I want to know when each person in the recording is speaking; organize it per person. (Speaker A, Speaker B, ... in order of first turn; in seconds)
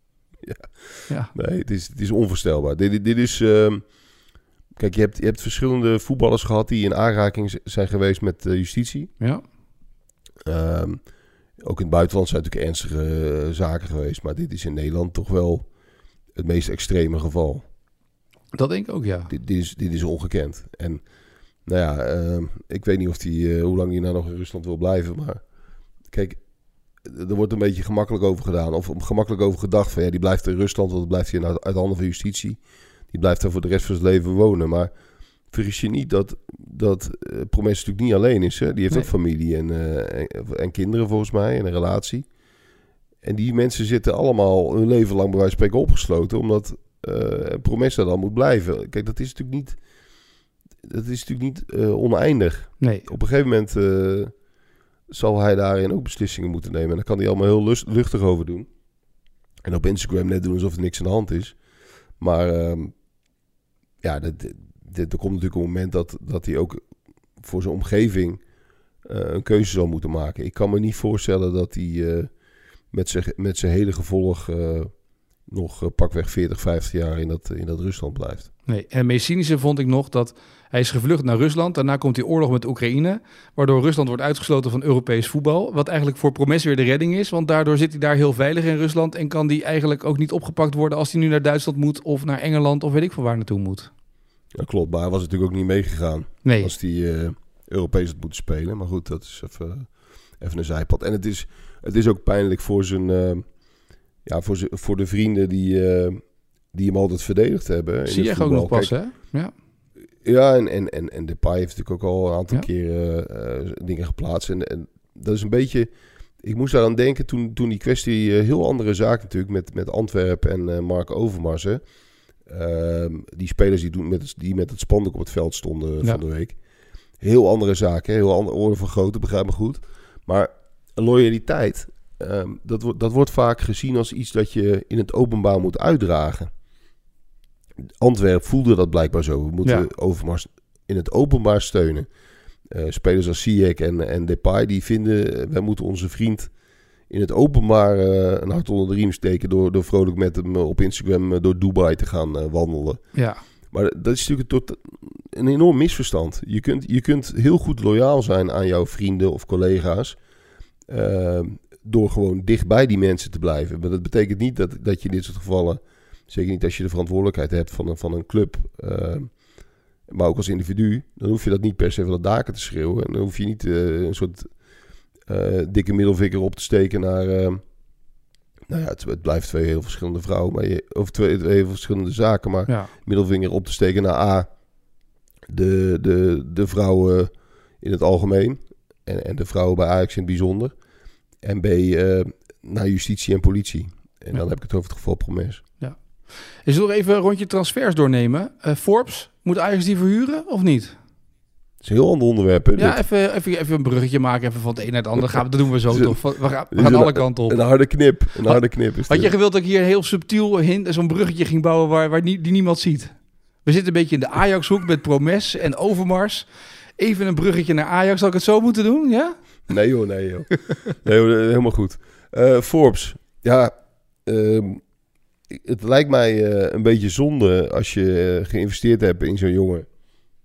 Speaker A: 0.4-3.9, 4.8-9.1, 10.4-11.0, 11.6-15.7, 16.3-17.6, 19.3-21.0, 21.6-25.4, 26.1-26.4, 27.0-34.9, 35.5-42.3, 43.2-49.8, 50.8-54.3, 55.1-58.7, 59.6-61.6, 62.2-62.9, 64.0-66.8, 67.4-68.4, 69.0-72.3, 72.9-74.9, 75.5-78.5, 94.5-103.5, 104.2-108.9, 110.2-121.8, 122.5-126.5, 127.2-136.5, 138.0-142.1, 142.7-146.5, 147.1-153.1, 153.7-160.2, 160.9-169.3, 170.1-174.6, 175.2-177.6, 178.7-184.5, 185.5-190.7, 191.4-195.6, 201.8-203.0, 205.2-209.3, 219.7-224.8, 225.5-229.9
Speaker B: 18.5-19.3, 52.8-53.0, 78.7-93.9, 96.4-96.7, 108.0-109.5, 153.1-153.4, 182.7-182.9, 195.8-200.9, 202.8-207.9, 208.4-219.4